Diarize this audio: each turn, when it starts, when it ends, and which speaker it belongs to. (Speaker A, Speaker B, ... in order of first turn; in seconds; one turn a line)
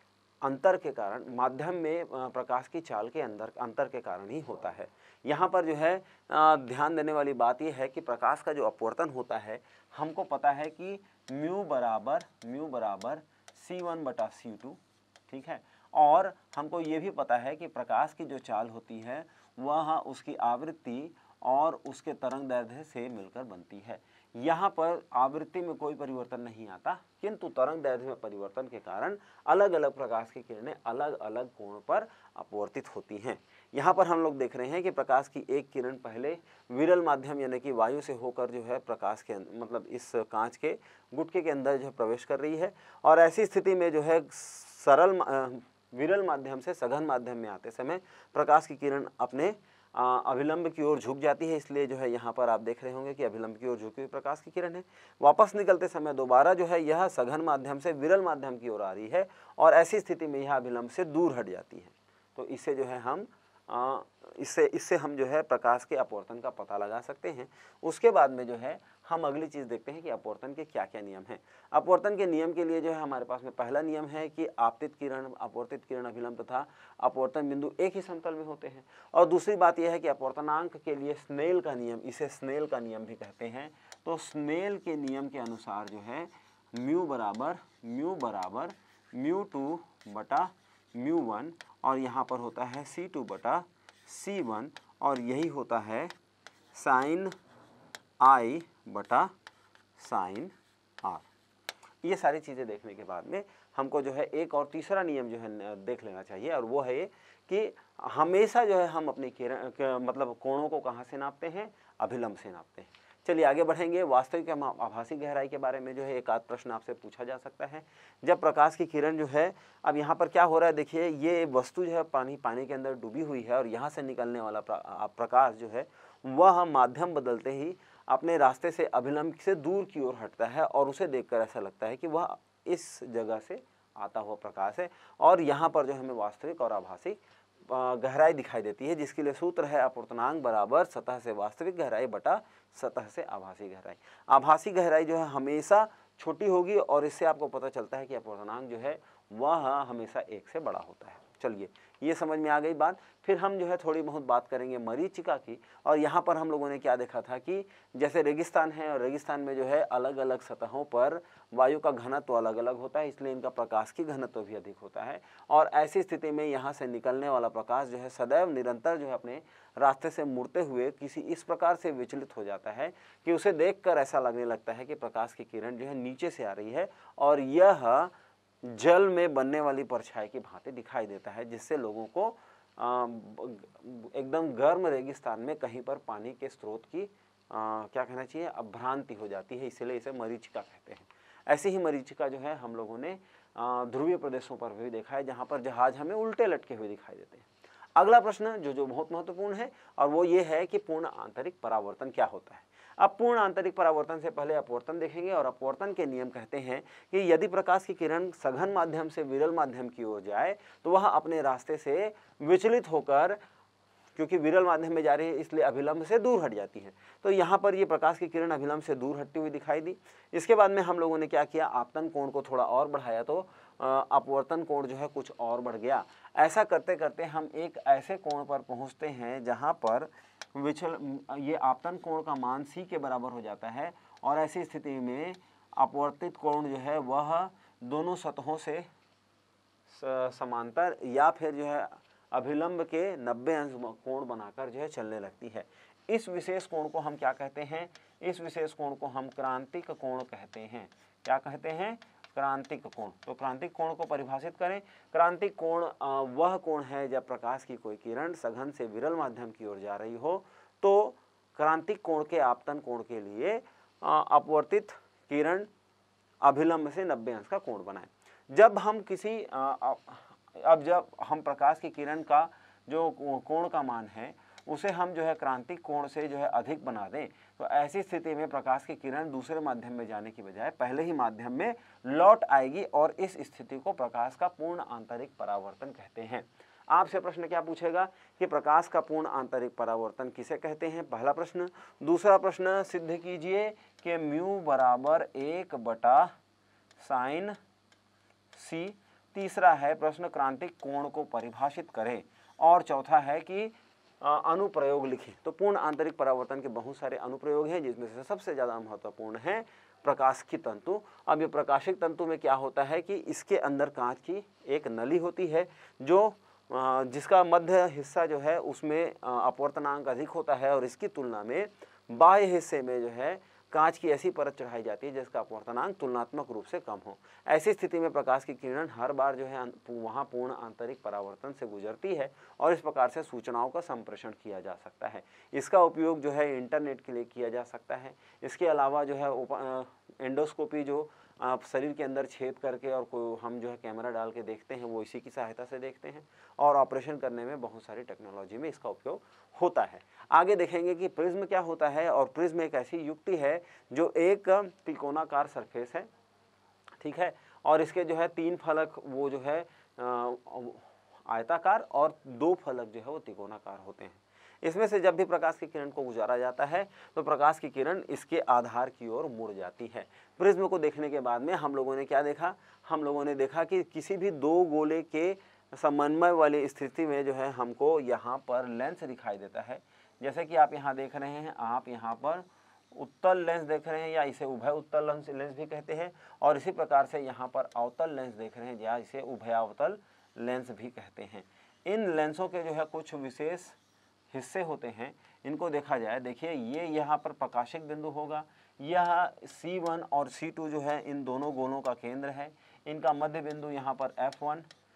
Speaker A: 0.4-96.1
Speaker A: 96.7-97.3
Speaker A: 98.2-99.3
Speaker A: 100.0-101.2
Speaker A: 102.0-178.1
Speaker A: 178.6-213.4
Speaker A: 214.2-238.9
Speaker A: 239.9-265.7
Speaker A: 266.4-296.3
Speaker A: 297.0-297.6
Speaker A: 298.5-356.1
Speaker A: 357.0-393.8
Speaker A: 394.3-404.6